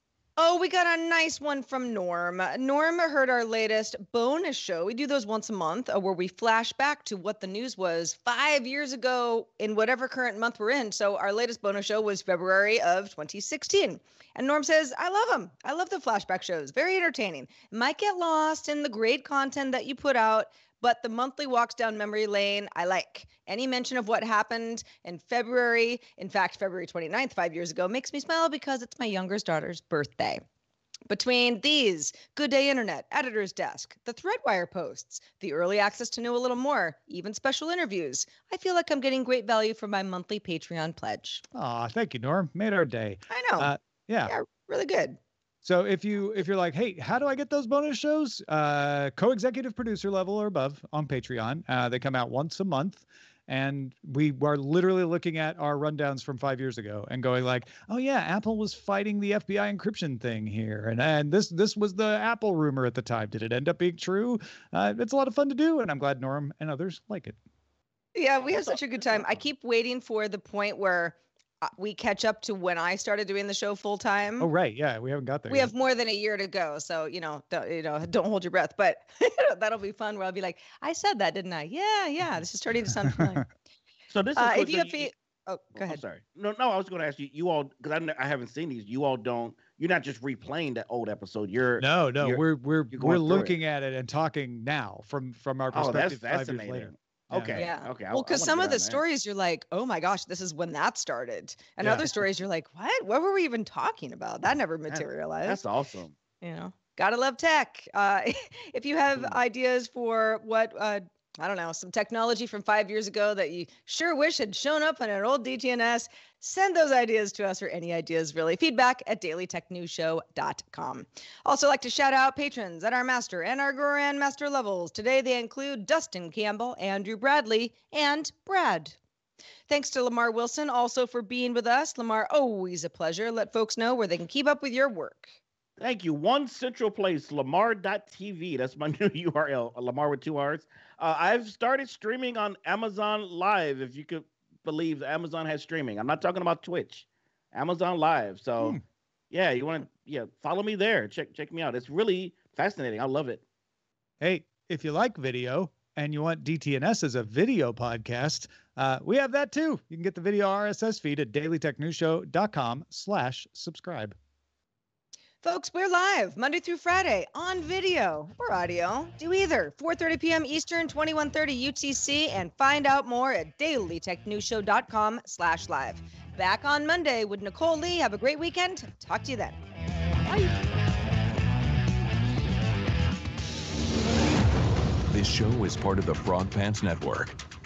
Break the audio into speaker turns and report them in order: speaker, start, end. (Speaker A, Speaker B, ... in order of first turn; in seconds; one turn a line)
Speaker A: 0.4-30.4
Speaker A: 31.1-41.4
Speaker B: 41.5-44.3
Speaker A: 43.3-43.7
Speaker A: 44.3-45.2
Speaker B: 45.6-67.4
Speaker A: 68.2-74.5
Speaker C: 68.5-69.4
Speaker B: 74.4-75.7
Speaker A: 75.5-83.5
Speaker C: 84.1-85.1
Speaker A: 84.4-86.0
Speaker C: 85.7-93.6
Speaker B: 91.8-97.6
Speaker C: 95.7-99.0
Speaker A: 97.6-105.6
Speaker B: 101.8-102.2
Speaker C: 104.9-106.2
Speaker A: 106.4-129.0
Speaker A: 129.7-135.4
Speaker C: 135.8-148.8
Speaker C: 149.3-153.4
Speaker B: 154.2-164.2
Speaker A: 165.4-179.6
Speaker D: 185.1-187.4